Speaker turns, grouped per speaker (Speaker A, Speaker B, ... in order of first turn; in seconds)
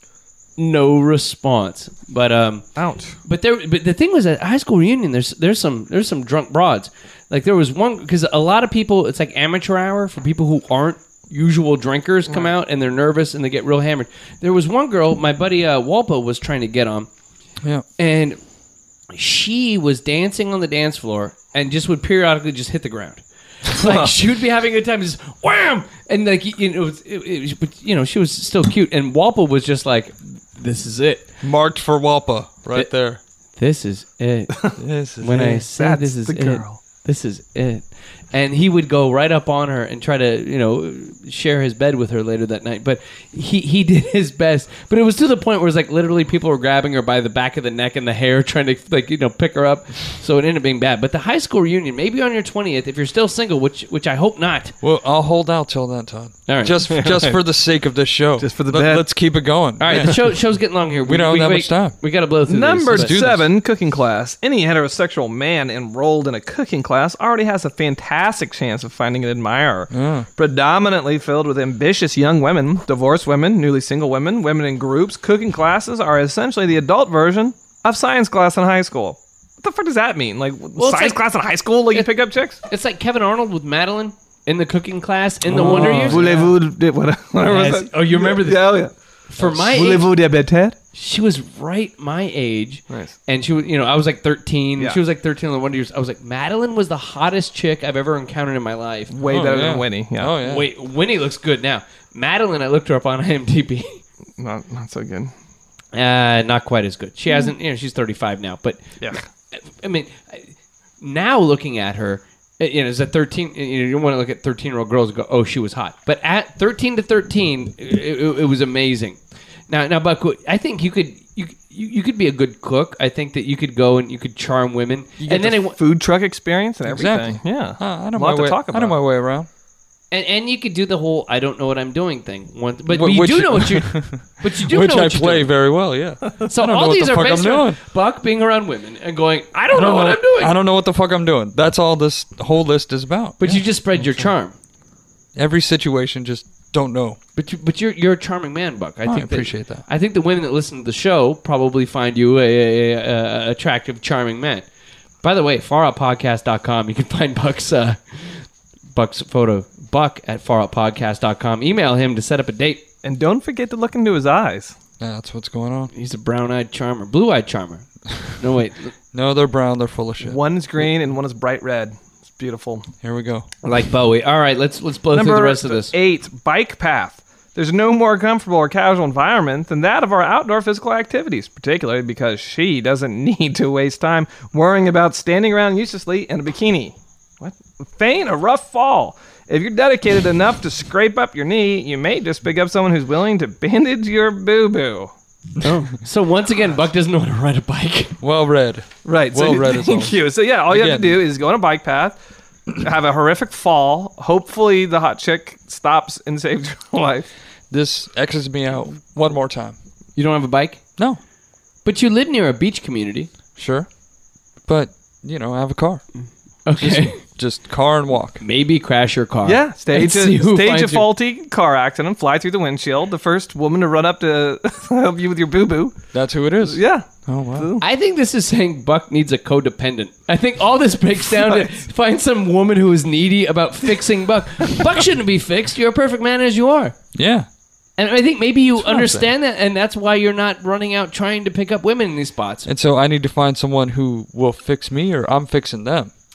Speaker A: 0.6-2.7, 3.2-17.1, 18.0-18.4, 19.1-31.3, 33.5-54.7, 56.5-56.9, 59.8-63.1, 80.8-81.2, 82.7-86.5, 87.4-90.1, 90.9-99.1, 100.4-104.0, 105.9-119.2, 119.7-125.8, 130.1-135.5, 136.4-140.5, 143.4-144.5, 147.3-154.7, 155.2-162.8, 165.9-167.8, 168.4-168.9, 173.6-175.9, 195.6-198.1, 210.2-210.8, 211.8-213.3, 216.7-217.2, 218.4-221.1, 227.8-236.9, 238.0-242.7
Speaker B: 2.8-3.1, 23.7-24.1, 34.6-36.8, 56.9-57.4, 58.4-59.2, 62.5-82.6, 85.5-90.8, 92.9-93.1, 99.1-100.3, 104.4-105.3, 125.2-129.0, 163.0-164.7, 170.2-172.9, 175.1-195.1, 199.0-202.2, 202.7-207.3, 219.4-226.1, 226.6-227.8
Speaker C: 31.4-33.2, 34.8-35.5, 54.8-60.4, 61.0-62.0, 62.9-63.5, 69.9-70.3, 85.5-86.4, 99.2-100.7, 126.8-129.5, 132.9-137.8, 139.7-143.6, 145.3-147.2, 149.0-149.8, 165.0-165.9, 169.1-170.4, 173.0-173.5, 198.2-200.2, 200.7-201.2, 207.7-209.8, 213.6-213.9, 214.6-216.0, 216.8-218.4, 226.1-227.7, 237.1-237.5, 238.8-239.3, 242.7-246.1